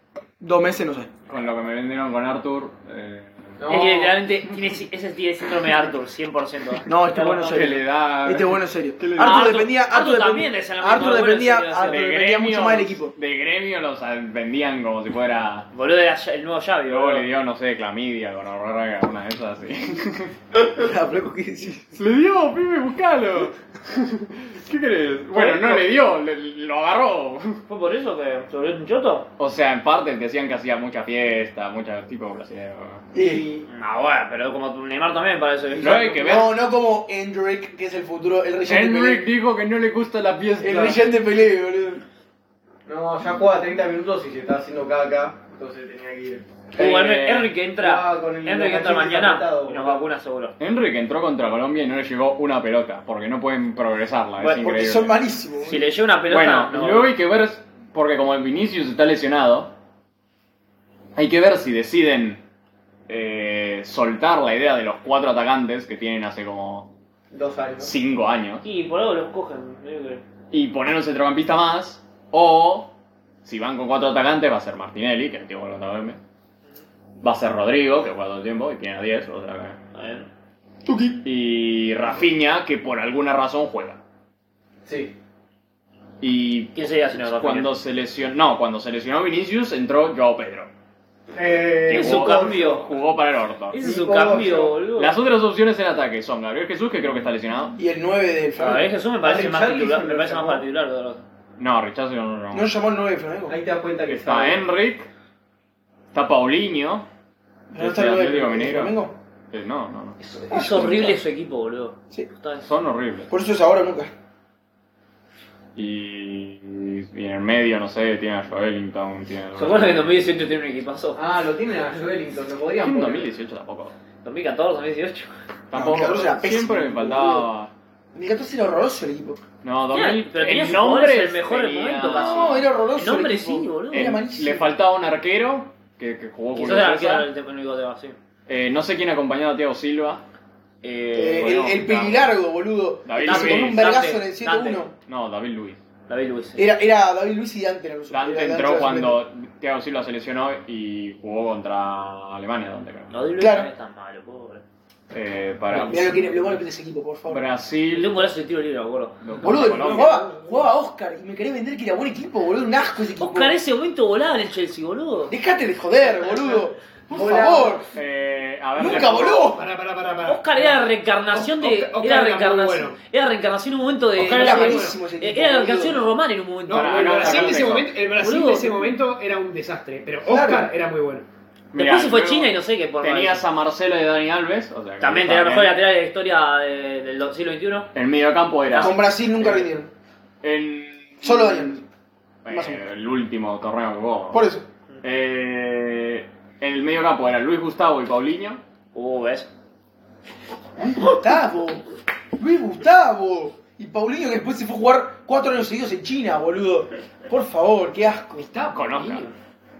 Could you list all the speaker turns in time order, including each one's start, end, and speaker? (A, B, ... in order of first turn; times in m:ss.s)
0:00.4-0:01.1 A
0:01.3-0:03.6 B
0:03.6-0:04.2 C
0:03.7-0:07.7 D
0:06.8-0:13.1 A
0:07.4-0:09.7 B
0:09.2-0:12.1 D
0:11.8-0:15.7 B
0:15.7-0:17.3 D
0:16.8-0:20.3 B
0:20.7-0:22.0 A
0:22.0-0:27.6 B
0:25.4-0:25.8 D
0:27.7-0:29.3 D
0:29.4-0:33.1 B
0:33.1-0:33.5 A
0:33.2-0:33.7 C
0:33.7-0:36.2 D
0:35.8-0:39.3 A
0:35.8-0:36.6 B
0:38.7-0:41.1 B
0:40.6-0:42.0 A
0:42.9-0:46.4 C
0:46.7-0:47.5 B
0:46.8-0:50.5 D
0:47.8-0:50.0 C
0:50.6-0:55.2 B
0:54.4-0:54.7 D
0:54.6-0:55.8 A
0:55.6-0:57.1 D
0:56.3-0:59.7 B
1:01.1-1:02.4 B
1:03.1-1:06.9 B
1:07.3-1:07.9 C
1:07.8-1:08.6 B
1:08.6-1:10.2 D
1:10.5-1:12.9 B
1:13.4-1:16.2 B
1:17.2-1:19.8 B
1:19.9-1:20.3 D
1:20.8-1:21.2 A
1:21.2-1:24.0 B
1:24.8-1:25.1 C
1:26.2-1:30.7 B
1:26.7-1:27.7 D
1:31.3-1:32.8 C
1:31.9-1:33.8 B
1:31.9-1:32.9 D
1:33.7-1:35.1 D
1:33.8-1:34.8 C
1:34.9-1:37.8 B
1:37.8-1:38.9 A
1:38.6-1:41.2 D
1:39.2-1:40.6 C
1:41.6-1:42.7 B
1:42.5-1:43.6 A
1:43.5-1:44.6 C
1:44.1-1:45.1 B
1:46.1-1:47.0 B
1:47.7-1:49.1 A
1:47.8-1:49.0 B
1:49.5-1:50.2 B
1:50.2-1:52.6 D
1:50.5-1:51.2 A
1:52.6-1:53.3 B
1:53.3-1:54.1 A
1:55.7-2:00.1 B
1:59.6-2:01.2 D
2:01.2-2:03.3 C
2:02.8-2:03.9 B
2:04.2-2:05.3 D
2:05.7-2:07.7 B
2:05.7-2:07.5 A
2:08.1-2:09.4 A
2:09.6-2:12.6 B
2:09.9-2:14.2 D
2:12.1-2:14.7 A
2:13.9-2:17.3 B
2:16.5-2:18.2 D
2:18.5-2:20.2 B
2:20.8-2:22.3 B
2:21.1-2:24.9 A
2:23.0-2:24.0 B
2:23.2-2:24.8 D
2:25.0-2:25.8 B
2:26.1-2:26.6 D
2:26.6-2:29.2 A
2:28.1-2:33.2 B
2:33.1-2:34.6 D
2:33.4-2:33.7 A
2:35.1-2:36.4 B
2:35.7-2:36.1 E
2:35.8-2:37.4 A
2:37.3-2:38.2 B
2:37.9-2:39.2 D
2:39.2-2:40.2 B
2:39.4-2:43.6 A
2:39.5-2:40.6 E
2:43.2-2:45.3 D
2:45.3-2:47.8 A
2:47.1-2:47.9 C
2:47.9-2:49.4 B
2:48.8-2:49.6 A
2:49.5-2:53.0 E
2:50.2-2:58.9 D
2:54.2-2:55.0 E
2:54.3-2:56.1 A
2:56.7-3:01.2 E
2:56.7-2:57.9 B
3:00.2-3:00.7 A
3:01.7-3:05.8 B
3:01.7-3:03.4 D
3:05.0-3:07.9 D
3:07.9-3:09.4 B
3:08.7-3:09.0 D
3:08.7-3:09.9 A
3:10.4-3:11.8 B
3:11.2-3:11.8 A
3:12.4-3:14.4 B
3:12.5-3:12.8 A
3:14.3-3:14.6 A
3:15.0-3:18.6 B
3:18.9-3:19.5 D
3:20.9-3:21.8 A
3:22.4-3:28.5 A
3:28.4-3:29.3 E
3:28.7-3:29.3 B